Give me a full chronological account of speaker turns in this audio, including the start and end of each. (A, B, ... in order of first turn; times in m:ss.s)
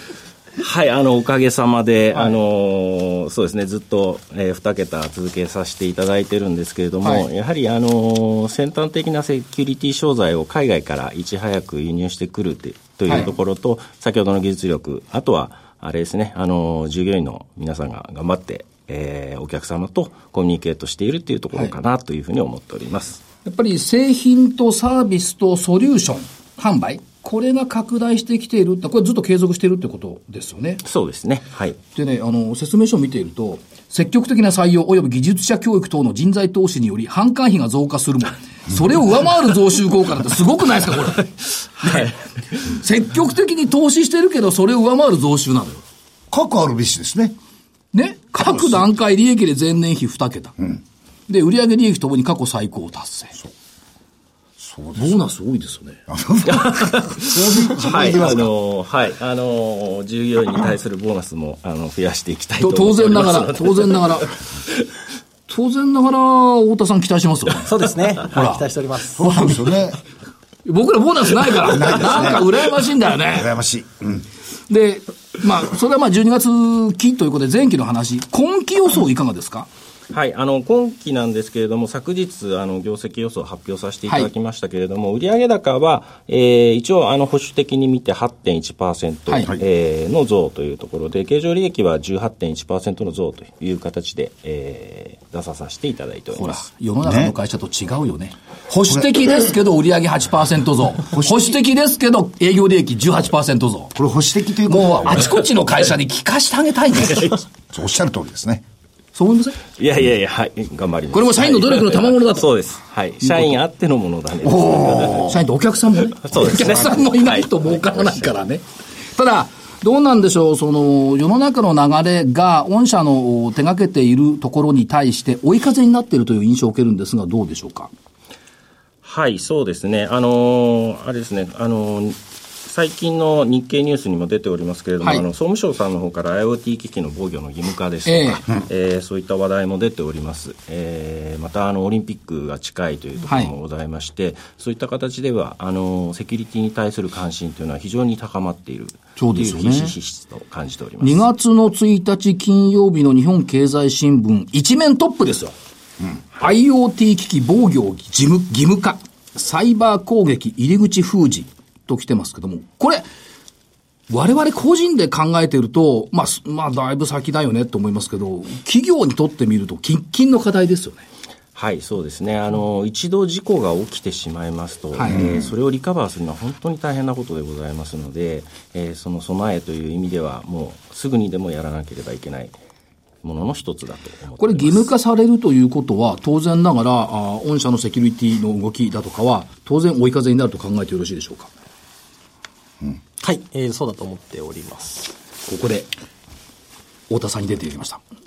0:00.6-0:23.2 A
0:23.4-0:30.8 B
0:30.8-0:31.8 A
0:31.9-0:45.8 B
0:41.8-0:42.1 A
0:46.3-0:47.4 C
0:47.9-0:50.6 B
0:48.4-0:48.8 C
0:51.3-0:53.3 B
0:54.6-0:55.2 C
0:55.0-0:56.0 B
0:56.1-0:58.5 C
0:56.4-1:04.3 A
1:02.6-1:04.3 B
1:05.5-1:07.7 B
1:07.6-1:09.3 D
1:08.3-1:08.6 B
1:09.1-1:10.0 C
1:09.2-1:09.6 B
1:10.6-1:13.5 B
1:11.6-1:12.6 C
1:13.3-1:14.2 C
1:14.7-1:19.7 B
1:20.1-1:36.6 A
1:36.3-1:43.9 B
1:37.0-1:37.3 C
1:41.1-1:41.4 C
1:43.9-1:45.4 C
1:44.7-1:47.4 B
1:47.7-1:48.6 C
1:49.1-1:49.6 B
1:49.8-1:55.3 A
1:51.1-1:52.5 B
1:53.2-1:53.6 B
1:54.4-1:55.4 C
1:55.1-1:58.6 B
1:56.2-1:58.3 A
1:59.1-2:07.9 B
2:09.0-2:31.3 A
2:18.0-2:18.4 B
2:23.2-2:23.5 B
2:29.2-2:29.9 B
2:31.0-2:35.5 B
2:36.4-2:43.0 B
2:44.1-2:51.0 B
2:51.5-3:02.5 A
2:54.9-2:55.2 B
3:03.2-3:04.9 A
3:04.4-3:11.5 B
3:13.2-3:15.1 D
3:15.5-3:15.9 B
3:17.1-3:18.0 B